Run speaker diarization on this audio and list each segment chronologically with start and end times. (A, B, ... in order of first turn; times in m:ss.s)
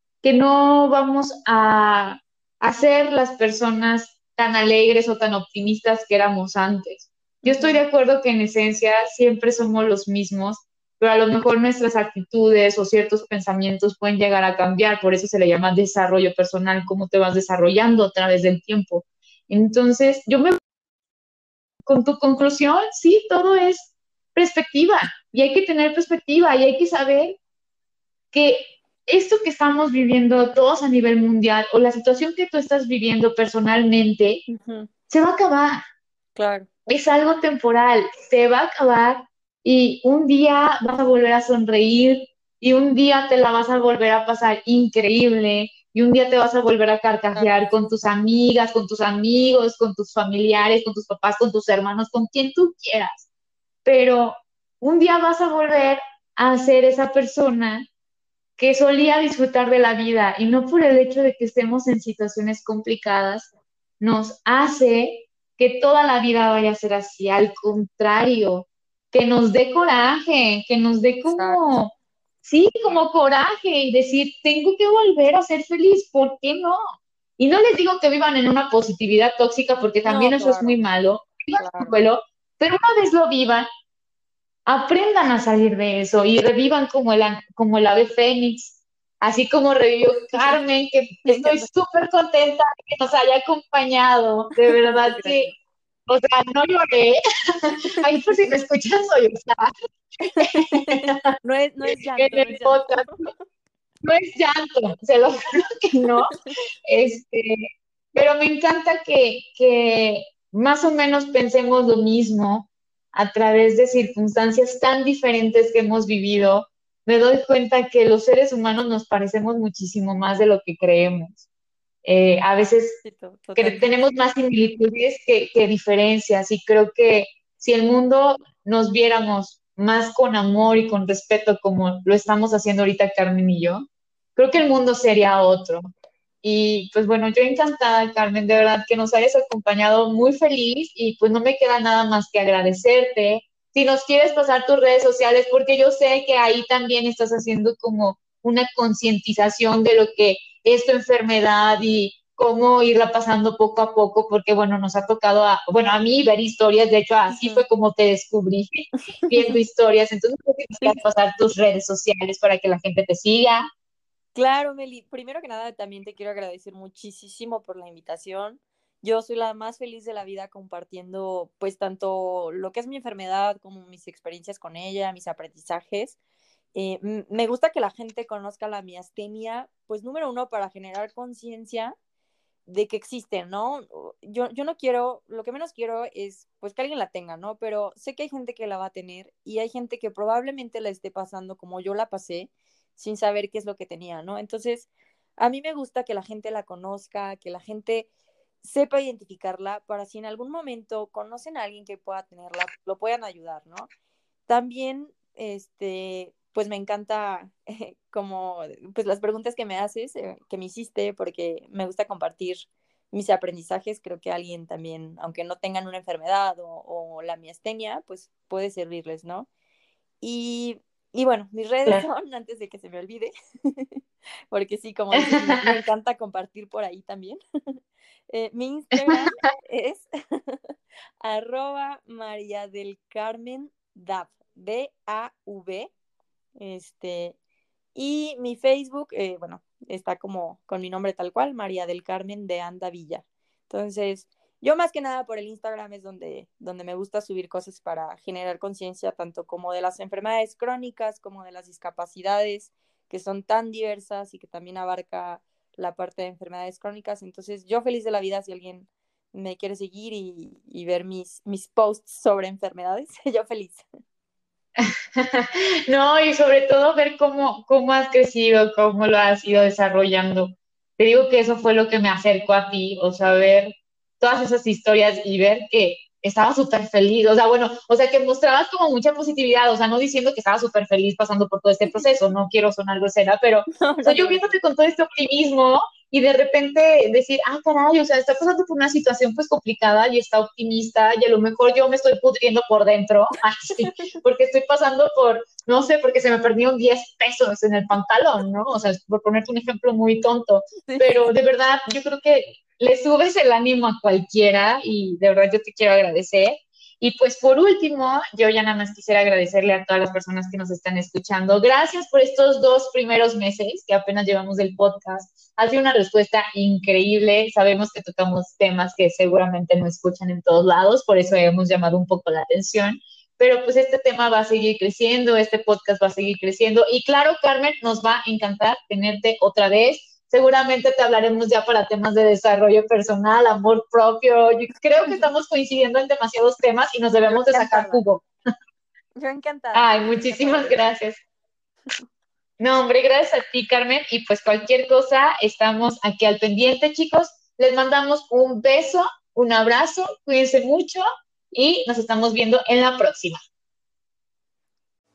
0:00.2-0:20.6 A
0:07.4-0:07.8 B
0:21.8-0:27.4 A
0:28.3-0:34.4 A
0:34.5-0:34.9 B
0:35.1-0:35.8 A
0:36.4-0:36.7 B
0:36.9-0:53.3 A
0:47.3-0:47.7 B
0:53.8-0:57.9 A
0:58.6-1:03.5 A
1:04.0-1:16.8 A
1:11.3-1:11.8 B
1:17.4-1:23.7 A
1:20.0-1:20.8 B
1:21.6-1:22.0 B
1:24.7-1:35.5 A
1:31.3-1:31.7 B
1:35.0-1:35.5 B
1:36.1-1:39.7 A
1:40.4-1:43.3 B
1:40.4-1:41.2 A
1:41.9-1:43.3 A
1:44.0-1:46.4 A
1:46.9-2:01.4 A
2:02.0-2:03.0 A
2:03.0-2:03.9 B
2:03.6-2:15.8 A
2:16.4-2:43.7 A
2:37.3-2:37.6 B
2:39.2-2:39.6 B
2:44.4-2:56.2 B
2:56.7-3:02.0 B
3:02.7-3:18.1 B
3:18.6-3:23.9 B
3:24.5-3:39.5 B
3:40.2-3:44.0 B
3:44.5-3:47.4 B
3:45.1-3:45.7 A
3:48.3-3:50.6 B
3:51.2-3:55.9 B
3:56.6-3:57.4 B
3:58.0-4:23.9 B
4:24.8-5:38.2 A
4:43.8-4:44.6 B
4:53.8-4:54.2 B
5:00.9-5:01.3 B
5:35.0-5:35.3 B
5:37.3-5:38.0 B
5:39.2-5:40.8 B
5:39.7-5:41.2 A
5:42.6-5:53.4 A